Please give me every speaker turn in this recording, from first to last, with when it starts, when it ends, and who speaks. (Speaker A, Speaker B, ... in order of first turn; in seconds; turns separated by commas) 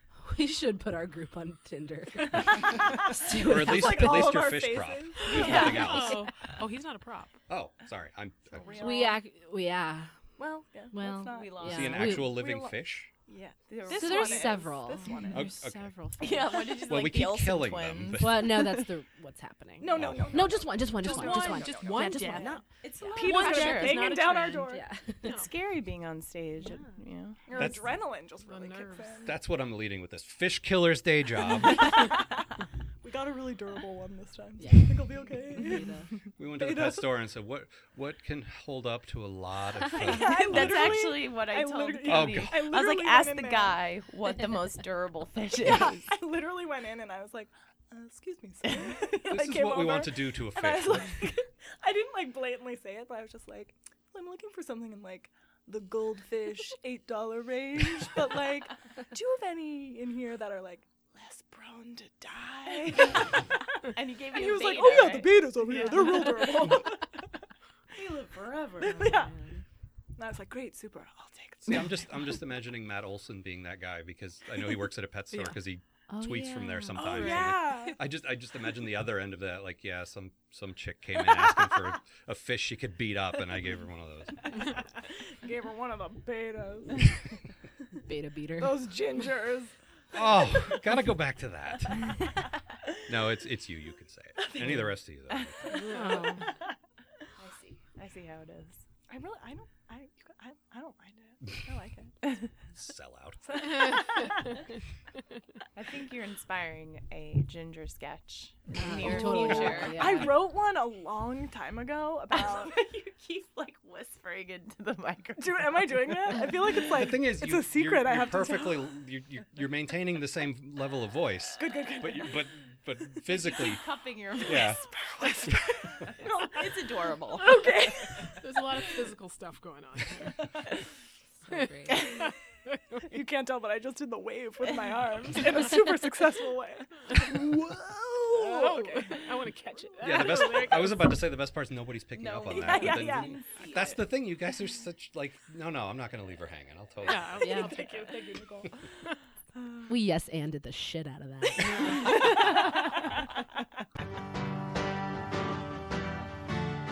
Speaker A: 0.2-4.4, Speaker B: 2.3-5.9, Speaker C: 3.1-6.3, Speaker D: 5.3-5.9, Speaker A: 5.3-6.3, Speaker E: 5.4-7.4, Speaker C: 7.5-8.9, Speaker B: 8.5-9.2, Speaker A: 8.7-10.3, Speaker B: 10.4-15.6, Speaker A: 10.9-12.4, Speaker D: 11.3-12.0, Speaker C: 11.7-13.1, Speaker D: 13.7-14.8, Speaker A: 13.9-16.9, Speaker C: 15.3-15.9, Speaker D: 16.2-18.8, Speaker C: 16.9-18.9, Speaker A: 18.1-23.1, Speaker B: 19.8-22.6, Speaker C: 19.9-20.6, Speaker D: 21.0-21.7, Speaker E: 21.0-25.5, Speaker D: 22.7-24.6, Speaker B: 23.1-24.9, Speaker A: 24.7-25.3, Speaker D: 25.2-27.4, Speaker A: 26.7-26.9, Speaker B: 27.5-29.4, Speaker C: 27.6-27.9, Speaker E: 28.4-29.3, Speaker C: 29.2-32.1, Speaker B: 31.6-37.1, Speaker A: 34.6-36.1, Speaker C: 36.4-41.2, Speaker B: 40.0-43.8, Speaker D: 40.0-46.1, Speaker C: 42.1-42.7, Speaker B: 45.6-67.4, Speaker D: 48.6-49.1, Speaker C: 49.3-51.3, Speaker D: 63.9-66.5, Speaker D: 67.9-69.5, Speaker B: 68.8-69.3, Speaker B: 70.2-72.3, Speaker C: 71.6-84.9, Speaker E: 75.3-75.6, Speaker A: 76.1-77.2, Speaker B: 77.0-78.0, Speaker E: 77.1-78.0, Speaker B: 85.0-87.1, Speaker A: 88.0-88.8, Speaker B: 88.6-90.9, Speaker C: 90.1-92.4, Speaker C: 93.1-95.9, Speaker B: 94.5-94.8, Speaker D: 95.3-96.3, Speaker B: 95.6-96.2, Speaker A: 95.9-96.5, Speaker D: 97.4-98.8, Speaker B: 99.1-102.5, Speaker C: 102.7-103.9, Speaker B: 103.5-104.6, Speaker D: 105.8-110.2, Speaker A: 108.8-110.4, Speaker B: 109.2-112.8, Speaker D: 112.3-116.3, Speaker B: 115.4-118.9, Speaker C: 116.8-123.9, Speaker B: 121.6-122.4, Speaker D: 123.3-124.8, Speaker C: 124.5-125.6, Speaker B: 124.7-126.8, Speaker D: 126.0-127.6, Speaker B: 127.3-128.8, Speaker E: 128.4-130.7, Speaker A: 131.4-132.1, Speaker E: 131.5-133.0, Speaker B: 133.1-139.3, Speaker E: 138.3-141.2, Speaker C: 140.0-147.7, Speaker D: 142.1-144.1, Speaker B: 142.5-143.6, Speaker E: 147.0-148.4, Speaker B: 147.4-148.9, Speaker A: 147.4-147.8, Speaker B: 149.6-149.9, Speaker A: 149.9-152.9, Speaker E: 151.6-152.3, Speaker B: 151.7-152.7